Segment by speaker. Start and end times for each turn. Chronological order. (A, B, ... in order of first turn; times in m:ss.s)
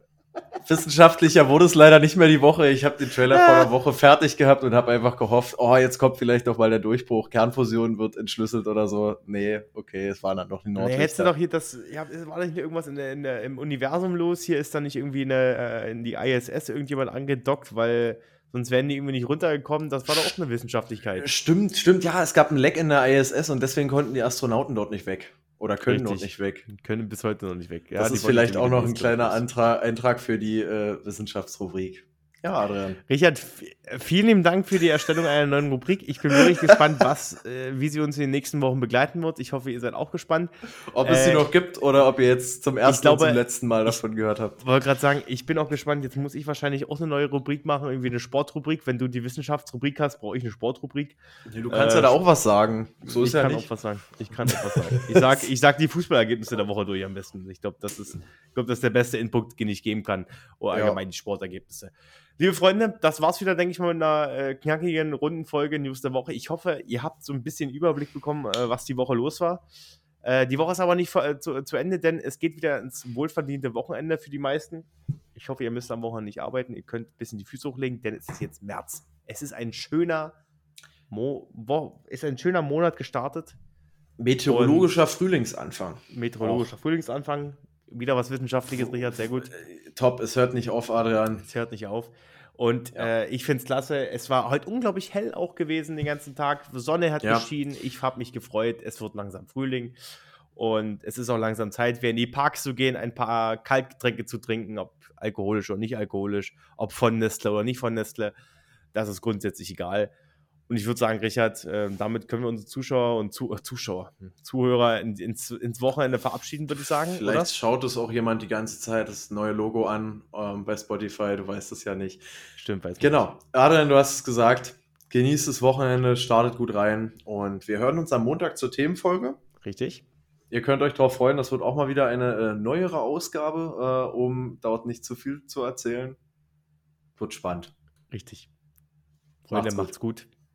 0:00.6-0:11.3 A
0:03.3-0:03.7 B
0:10.8-0:21.3 B
0:21.2-0:26.6 A
0:25.8-0:29.4 B
0:28.0-0:33.0 A
0:33.1-0:40.5 B
0:36.3-0:36.8 A
0:40.9-0:44.6 A
0:41.0-0:41.5 B
0:42.8-0:44.0 B
0:44.6-0:51.2 B
0:51.5-0:53.7 A
0:51.7-0:52.2 B
0:53.0-1:09.6 B
0:54.3-0:55.4 A
1:00.7-1:01.0 A
1:10.2-1:20.3 B
1:21.1-1:23.6 B
1:24.2-1:26.6 A
1:24.4-1:24.9 B
1:26.1-1:29.5 B
1:29.5-1:31.4 A
1:31.4-1:39.9 B
1:40.5-1:48.3 B
1:48.9-1:50.1 B
1:50.7-1:57.5 B
1:57.1-2:02.2 A
2:02.6-2:03.3 B
2:03.0-2:09.4 A
2:09.6-2:10.0 B
2:10.5-2:16.2 A
2:17.2-2:17.7 A
2:18.1-2:18.5 B
2:19.5-2:20.3 B
2:19.5-2:19.9 A